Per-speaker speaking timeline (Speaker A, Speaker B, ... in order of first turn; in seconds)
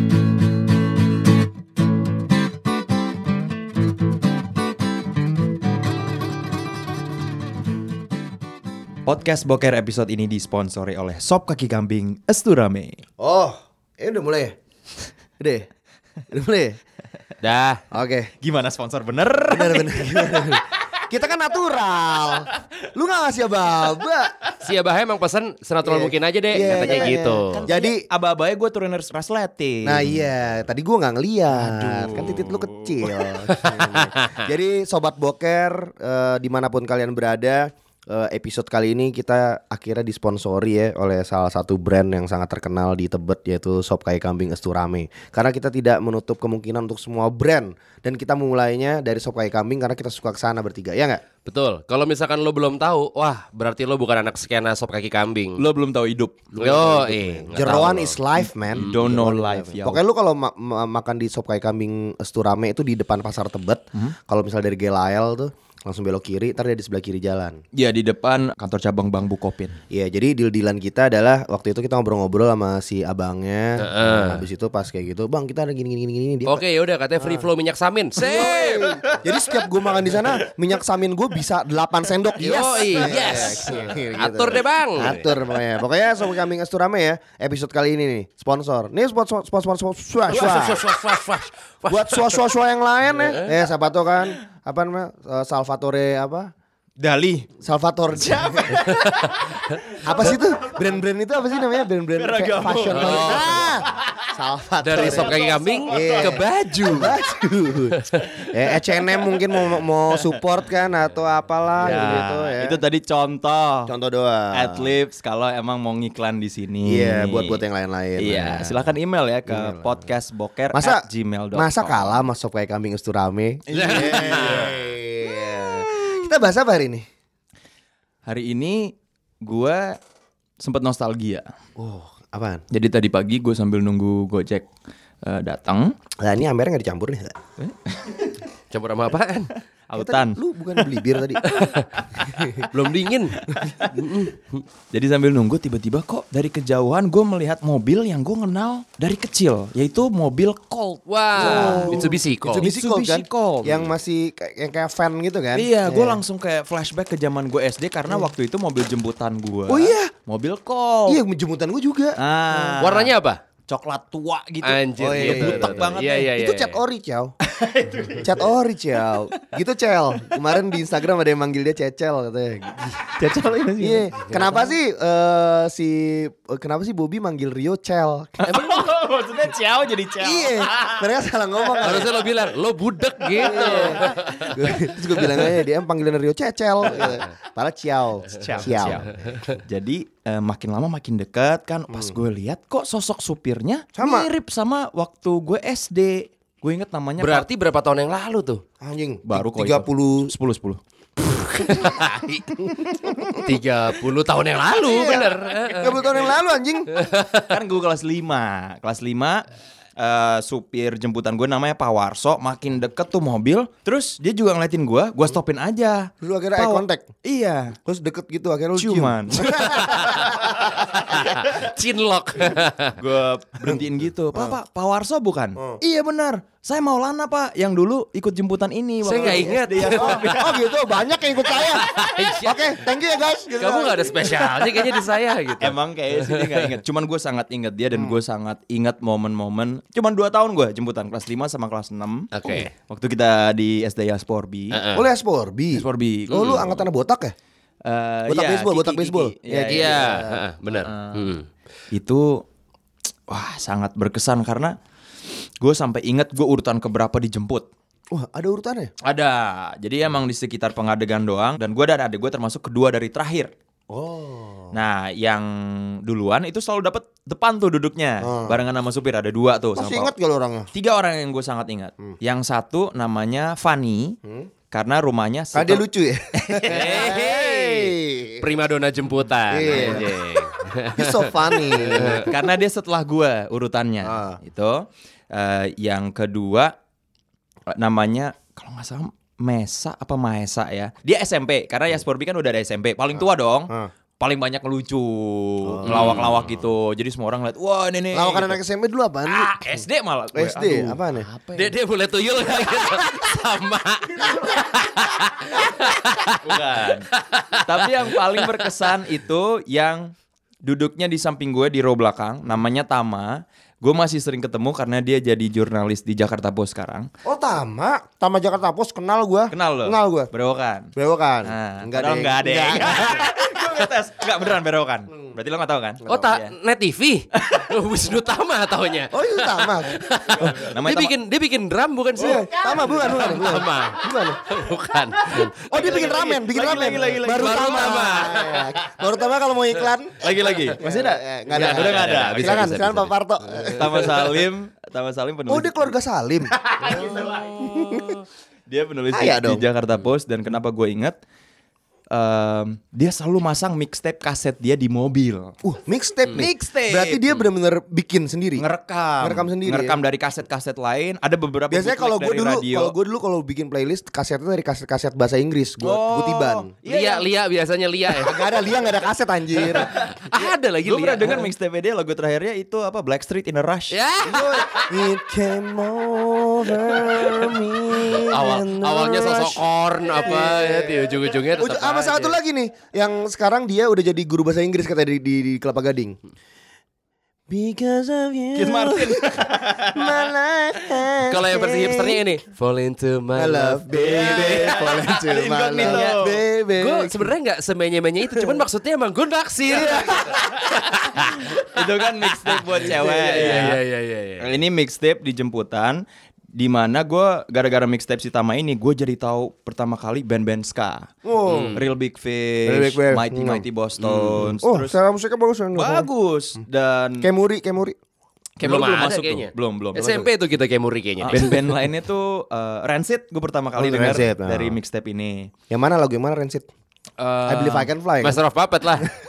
Speaker A: 9.1-13.0, 18.4-20.6, 26.6-30.3, 31.5-33.3, 55.6-57.0, 58.4-60.0, 67.7-69.8, 78.2-79.2, 83.0-83.7, 97.0-97.5, 98.1-100.9, 102.2-104.2, 104.9-106.5, 111.8-113.9, 114.5-117.6, 118.2-122.2, 123.7-124.9, 128.2-130.0, 130.6-131.5, 132.7-134.7, 135.2-135.9, 137.6-138.3, 139.9-140.8, 143.4-143.9, 144.9-153.9, 155.5-161.2, 162.2-163.1, 163.7-166.3, 167.4-168.5, 172.9-174.1, 178.4-181.1, 183.3-184.5, 188.3-197.4, 199.2-200.8, 207.4-209.4, 210.0-217.8, 218.8-220.2, 223.0-230.7, 235.6-244.8, 245.7-246.9, 247.8-251.3, 251.9-252.4, 253.3-254.8, 255.6-257.7, 259.0-263.5, 264.7-270.1, 270.7-274.2, 274.7-277.0, 279.7-280.0, 282.2-286.7, 287.7-298.6, 299.6-301.0, 306.4-310.1, 310.6-317.1, 319.5-320.9, 321.4-326.5, 327.4-327.7, 330.4-331.1, 335.7-338.1, 340.2-343.0, 343.7-345.9, 346.5-351.2, 352.1-355.6, 356.3-357.4, 358.6-362.9, 365.8-367.3, 369.7-370.1, 370.8-373.9, 388.5-390.2, 393.9-396.4, 399.7-403.8, 404.4-406.0, 406.5-411.1, 411.7-415.0, 415.7-417.3, 418.6-420.3, 421.2-425.5
Speaker B: 13.2-14.6, 15.4-15.7, 16.3-16.8, 17.9-18.3, 19.5-24.4, 25.8-28.0, 29.8-51.2, 56.6-67.6, 69.9-76.6, 77.2-77.5, 78.2-90.8, 91.9-96.5, 97.6-98.8, 100.0-112.8, 113.9-114.9, 116.8-118.9, 119.5-120.0, 120.7-127.0, 131.8-132.6, 136.2-137.4, 139.9-141.4, 151.3-156.2, 159.7-160.1, 161.1-162.2, 165.0-167.3, 168.2-173.0, 173.8-178.4, 180.2-182.1, 183.4-189.4, 191.9-192.1, 193.9-194.3, 198.8-200.3, 202.7-203.4, 204.8-206.9, 216.2-217.1, 217.8-221.0, 225.6-225.8, 229.1-235.0, 244.9-247.3, 248.3-250.4, 258.1-258.9, 263.9-264.8, 268.2-268.6, 269.8-270.7, 274.2-274.5, 275.5-278.4, 279.5-282.3, 284.0-284.4, 293.1-293.9, 295.6-296.5, 298.1-299.5, 300.3-301.7, 317.2-320.3, 320.9-323.6, 326.0-326.3, 329.1-330.0, 332.1-334.4, 335.5-344.4, 345.5-346.5, 349.1-349.6, 355.6-358.6, 359.2-360.0, 361.7-366.7, 368.2-369.9, 374.2-386.2, 387.5-392.2, 393.3-397.3, 398.3-398.6, 399.7-400.3, 411.2-411.8, 412.6-413.6, 414.6-416.1, 417.2-418.0, 423.7-424.8, 425.7-426.7, 427.4-428.4
Speaker C: 17.4-17.8, 24.6-27.6, 33.5-34.4, 51.4-55.6, 56.5-58.2, 73.8-74.4, 76.5-78.6, 82.4-85.3, 90.3-92.3, 98.9-99.8, 102.9-103.5, 104.8-107.2, 108.0-108.4, 111.8-112.2, 123.7-124.7, 138.7-139.5, 141.4-144.6, 151.1-152.7, 162.8-163.4, 164.6-166.8, 178.5-178.8, 181.8-184.9, 197.2-198.6, 201.5-202.4, 203.4-206.0, 206.9-207.5, 219.8-223.0, 229.0-230.4, 231.5-232.8, 233.6-236.8, 242.3-242.7, 244.7-245.0, 246.3-246.6, 249.7-251.4, 276.7-282.3, 295.9-296.4, 299.4-299.8, 301.5-308.6, 326.1-336.2, 337.2-338.7, 341.5-343.7, 346.8-347.6, 366.9-368.3, 369.8-371.4, 373.9-374.9, 378.3-382.4, 391.2-394.9, 395.8-396.1, 396.8-401.7, 402.3-404.5, 411.5-411.8, 414.0-414.5, 418.6-421.5, 427.2-429.1